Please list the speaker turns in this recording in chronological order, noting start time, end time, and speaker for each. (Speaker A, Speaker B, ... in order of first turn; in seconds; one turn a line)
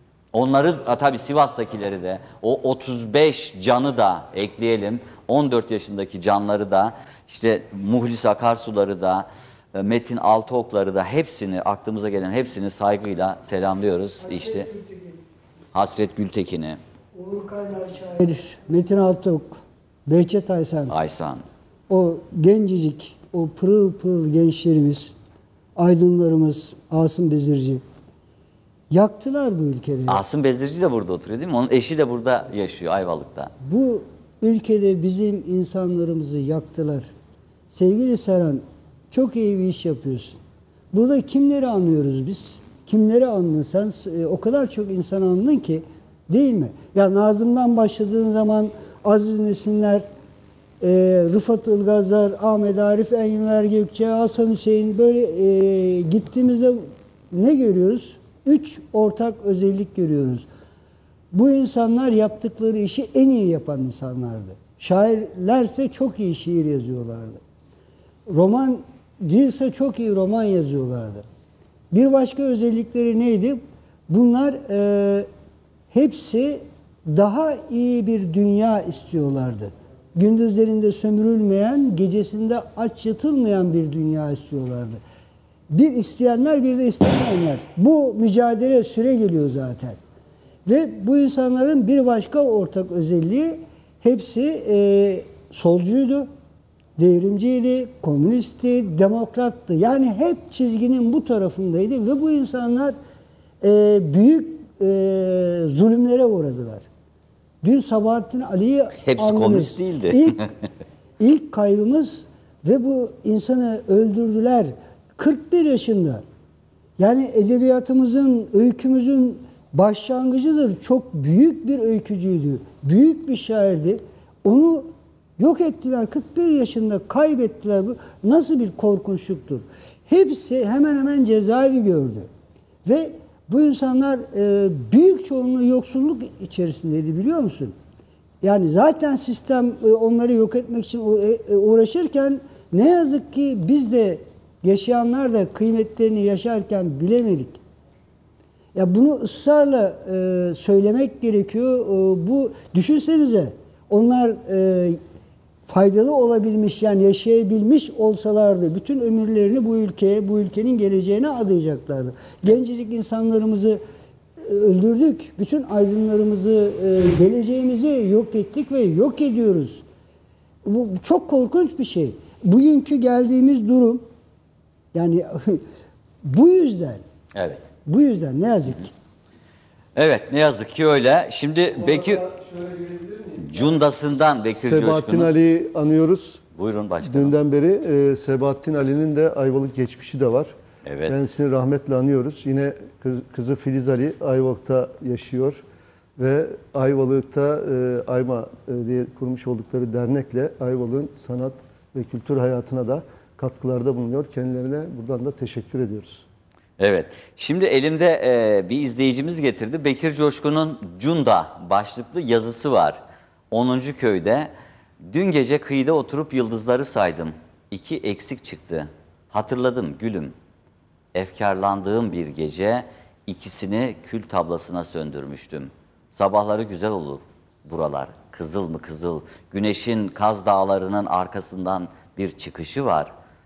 Speaker A: 0.3-14.7
Speaker B: 14.2-15.2
Speaker A: 15.7-16.8
Speaker B: 17.1-20.9
Speaker A: 20.9-21.4
Speaker B: 21.9-25.1
Speaker B: 25.8-27.8
Speaker B: 28.9-30.2
Speaker A: 30.1-33.5
Speaker B: 33.6-37.1
Speaker B: 37.7-40.4
Speaker B: 40.9-50.0
Speaker B: 50.8-60.5
Speaker B: 61.3-67.4
Speaker B: 68.3-71.2
Speaker B: 71.9-75.3
Speaker B: 75.9-85.0
Speaker B: 85.7-90.0
Speaker B: 90.7-96.3
Speaker B: 97.0-103.0
Speaker B: 103.6-106.9
Speaker B: 107.6-110.4
Speaker A: 109.0-110.5
Speaker B: 111.2-116.2
Speaker B: 117.0-132.3
Speaker B: 132.8-137.8
Speaker B: 138.4-147.6
Speaker B: 148.8-155.0
Speaker B: 155.7-163.8
Speaker B: 164.4-169.8
Speaker B: 170.7-174.0
Speaker B: 174.9-175.6
Speaker B: 176.2-177.0
Speaker A: 177.3-177.6
Speaker B: 177.9-178.9
Speaker A: 180.0-182.2
Speaker C: 181.8-186.4
Speaker A: 183.4-185.3
Speaker A: 186.5-187.3
Speaker C: 187.0-190.5
Speaker A: 190.8-191.2
Speaker C: 191.1-195.6
Speaker C: 196.2-206.2
Speaker A: 206.8-213.0
Speaker A: 213.5-214.5
Speaker A: 215.1-220.3
Speaker A: 221.1-233.1